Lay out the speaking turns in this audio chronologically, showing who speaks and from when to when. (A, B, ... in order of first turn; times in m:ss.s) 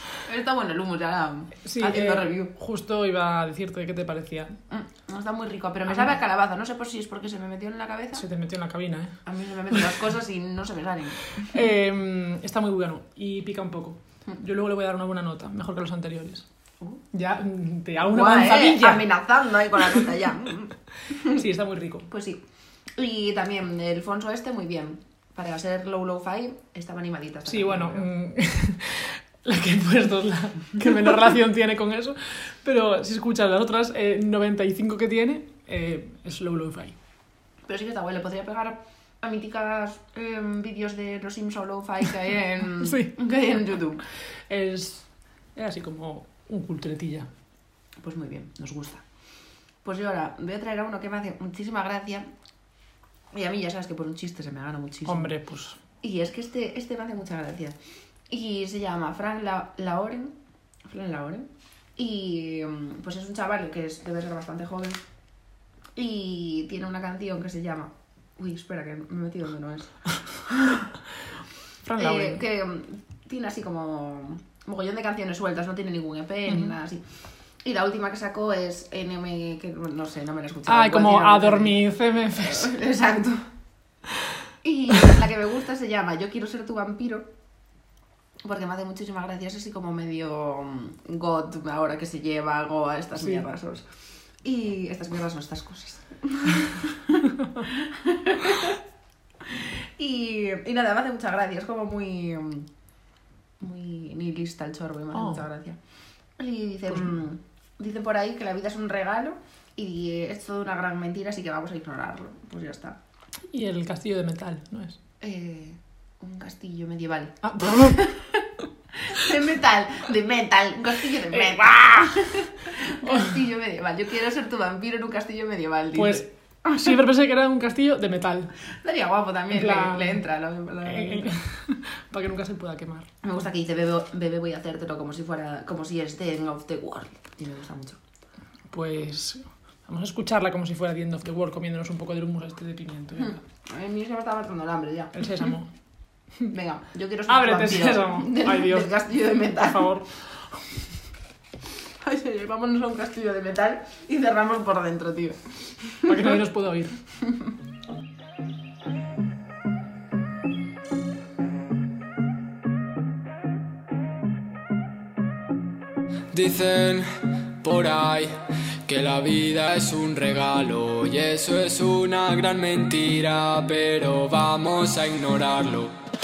0:00.2-0:02.5 A
0:01.6-0:04.5 B
0:04.7-0:08.2 A
0:08.1-0:09.2 B
0:09.2-0:11.5 A
0:11.4-0:16.4 B
0:17.1-0:19.1 B
0:18.0-0:21.4 A
0:19.8-0:20.0 B
0:21.3-0:22.1 B
0:22.1-0:22.4 A
0:23.0-0:28.1 A
0:27.5-0:37.0 B
0:37.7-0:44.0 A
0:42.8-0:43.5 B
0:44.5-0:47.3 B
0:48.0-0:49.0 A
0:49.8-0:52.3 A
0:53.3-0:55.3 A
0:55.1-0:55.8 B
0:56.0-0:57.8 A
0:58.3-1:00.4 A
1:00.9-1:05.0 A
1:06.0-1:09.9 A
1:10.5-1:10.9 A
1:11.8-1:12.4 B
1:12.0-1:17.0 A
1:16.5-1:16.7 B
1:17.6-1:23.5 A
1:20.7-1:22.8 B
1:24.6-1:27.3 A
1:28.4-1:33.8 A
1:34.4-1:38.8 A
1:39.5-1:42.7 A
1:43.6-1:45.8 A
1:45.1-1:45.4 B
1:46.4-1:53.0 A
1:53.5-1:55.0 B
1:55.2-2:06.2 A
1:57.4-1:58.1 B
2:01.3-2:02.2 B
2:06.0-2:08.5 B
2:08.8-2:11.3 A
2:09.5-2:10.2 B
2:10.8-2:13.1 B
2:13.2-2:18.0 A
2:18.7-2:23.4 B
2:23.2-2:25.3 A
2:25.1-2:25.7 B
2:26.5-2:29.9 A
2:27.3-2:30.3 B
2:32.0-2:36.3 A
2:36.0-2:37.0 B
2:46.3-2:56.0 C